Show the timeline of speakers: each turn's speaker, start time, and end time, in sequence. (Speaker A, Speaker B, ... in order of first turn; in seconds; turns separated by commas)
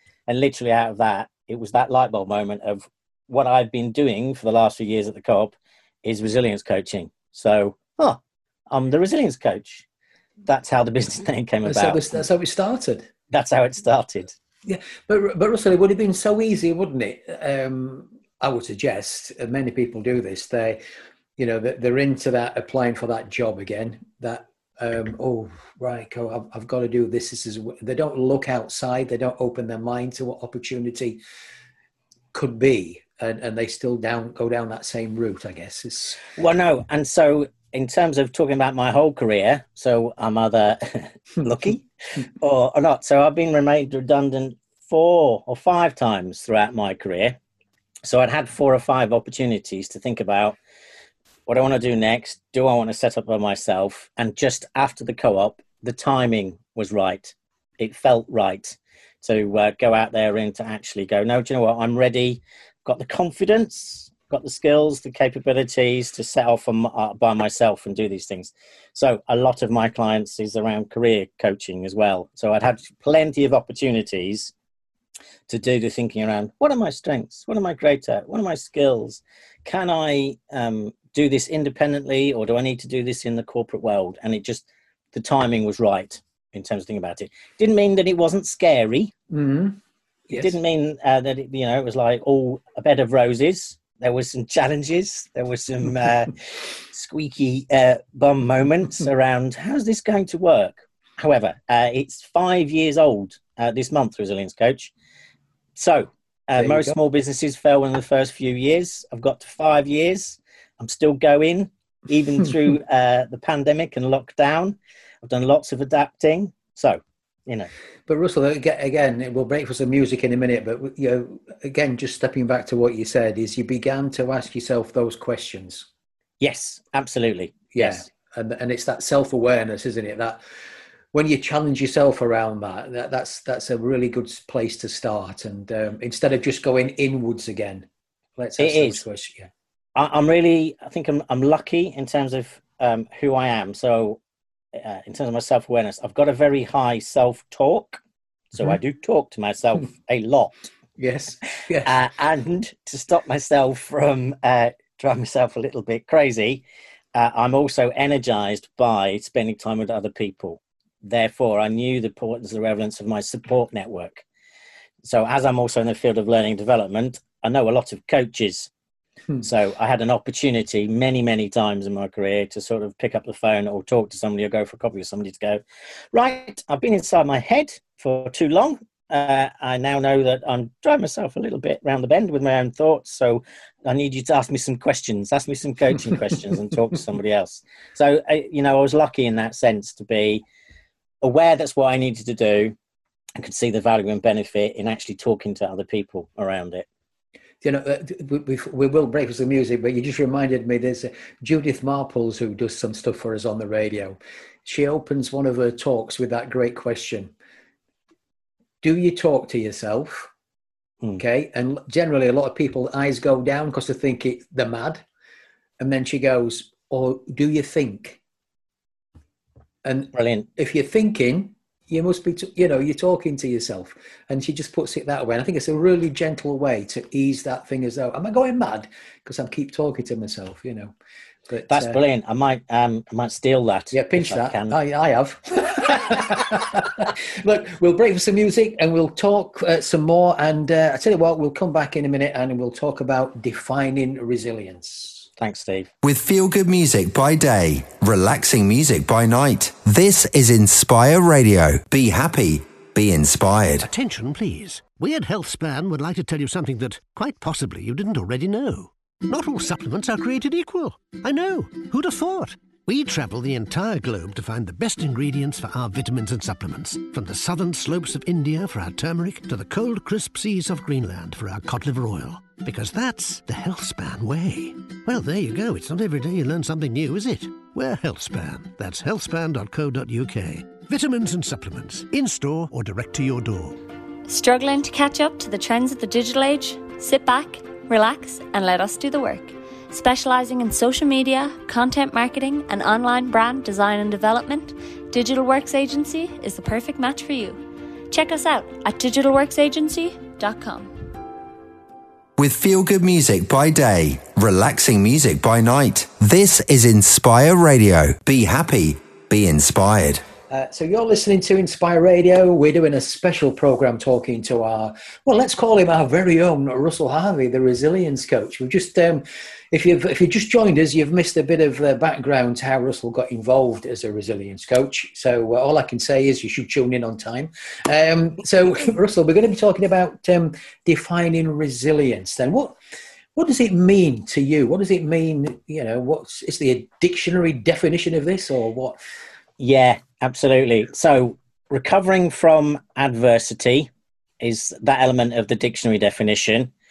Speaker A: 0.3-9.8, Speaker A: 10.5-12.2, Speaker B: 11.7-13.1, Speaker A: 13.3-14.3, Speaker B: 14.7-20.8, Speaker B: 21.4-31.2, Speaker B: 32.3-36.2, Speaker A: 36.4-41.8, Speaker A: 42.4-47.4, Speaker A: 48.0-50.6, Speaker A: 51.5-74.5, Speaker A: 75.5-89.1, Speaker B: 89.3-89.8, Speaker B: 90.3-90.5, Speaker A: 90.4-96.4, Speaker A: 96.9-104.9, Speaker A: 105.8-117.7, Speaker B: 106.6-107.0, Speaker B: 118.1-125.9, Speaker A: 126.4-128.0, Speaker B: 127.7-130.4, Speaker B: 131.1-139.5, Speaker A: 138.6-139.0, Speaker A: 140.0-144.2, Speaker A: 144.7-148.0, Speaker A: 148.5-150.7, Speaker B: 151.0-151.9, Speaker A: 151.8-156.6, Speaker A: 157.1-164.2, Speaker A: 165.0-168.7, Speaker A: 169.4-175.6, Speaker A: 176.1-190.4, Speaker A: 191.2-192.8, Speaker A: 193.3-196.8, Speaker B: 197.6-207.3, Speaker B: 208.8-210.3, Speaker B: 211.2-215.0, Speaker B: 215.8-218.2, Speaker B: 219.8-230.9, Speaker A: 220.1-220.5, Speaker B: 231.5-232.0, Speaker A: 231.7-234.8, Speaker B: 233.9-245.3, Speaker A: 245.4-245.9, Speaker C: 246.0-253.9, Speaker D: 253.9-283.8, Speaker E: 284.3-300.9, Speaker C: 302.4-310.2, Speaker B: 310.5-332.8, Speaker B: 333.4-339.0, Speaker A: 339.6-343.9, Speaker A: 344.4-346.7